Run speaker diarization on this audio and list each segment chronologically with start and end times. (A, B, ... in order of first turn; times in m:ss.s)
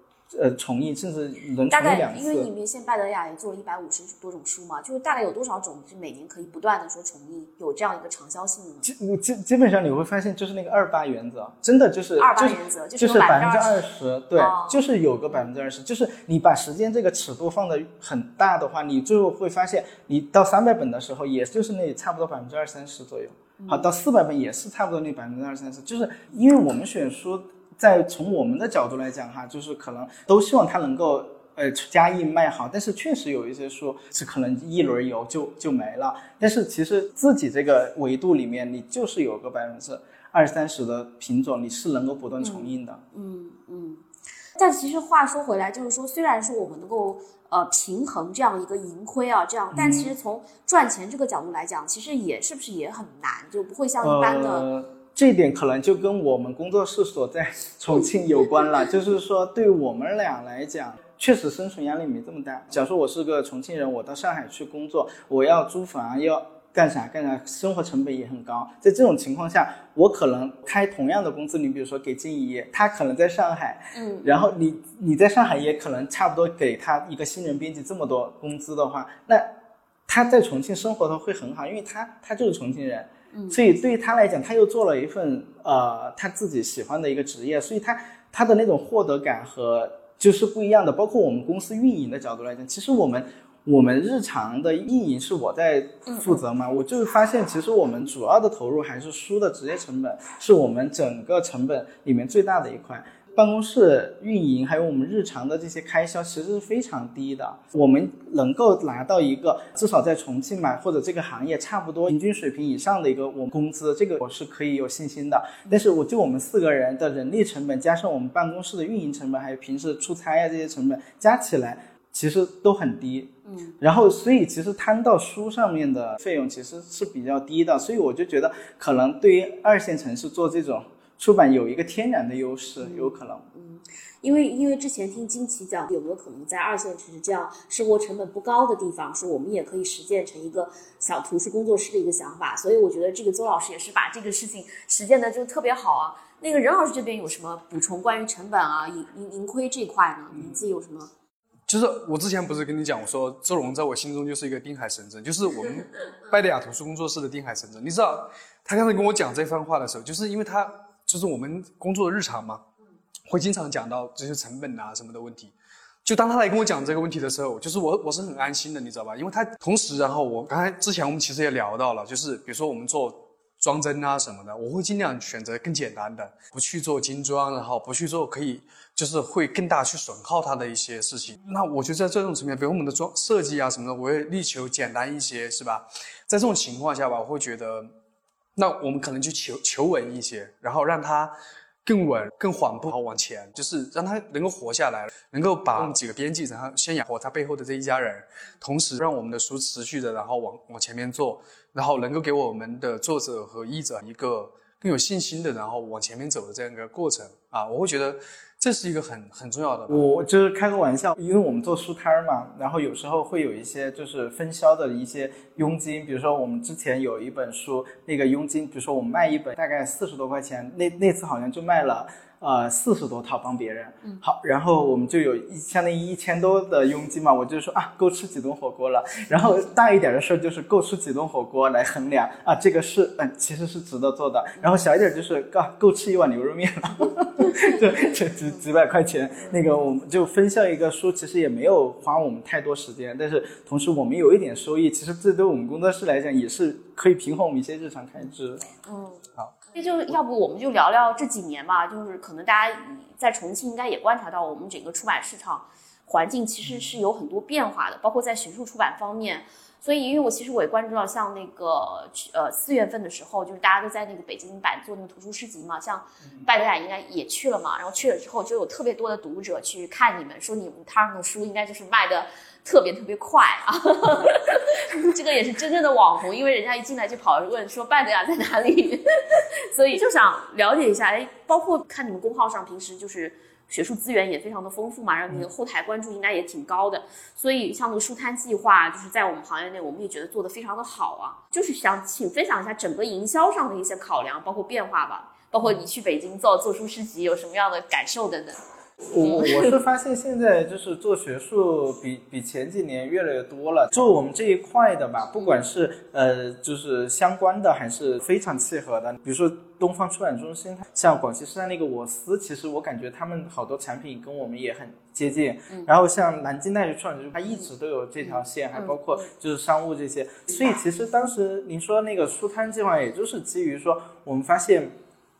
0:00.3-0:02.5 A
0:01.7-0:08.9 B
0:08.8-0:43.0 A
0:12.2-0:13.8 B
0:14.4-0:14.8 B
0:23.6-0:23.9 B
0:42.4-0:44.0 B
0:44.6-0:54.7 B
0:49.7-0:50.1 A
0:54.0-1:19.5 A
1:13.9-1:14.4 B
1:20.1-2:13.4 A
1:23.3-1:23.6 B
1:36.1-1:36.3 B
2:03.5-2:03.8 B
2:12.8-2:31.1 B
2:31.7-2:42.6 C
2:43.3-2:45.5 C
2:46.0-3:07.9 C
3:08.6-3:30.0 C
3:29.9-4:08.7 A
4:08.8-4:58.6 B
4:59.1-5:24.9 A
4:59.2-4:59.7 B
5:18.8-5:19.2 B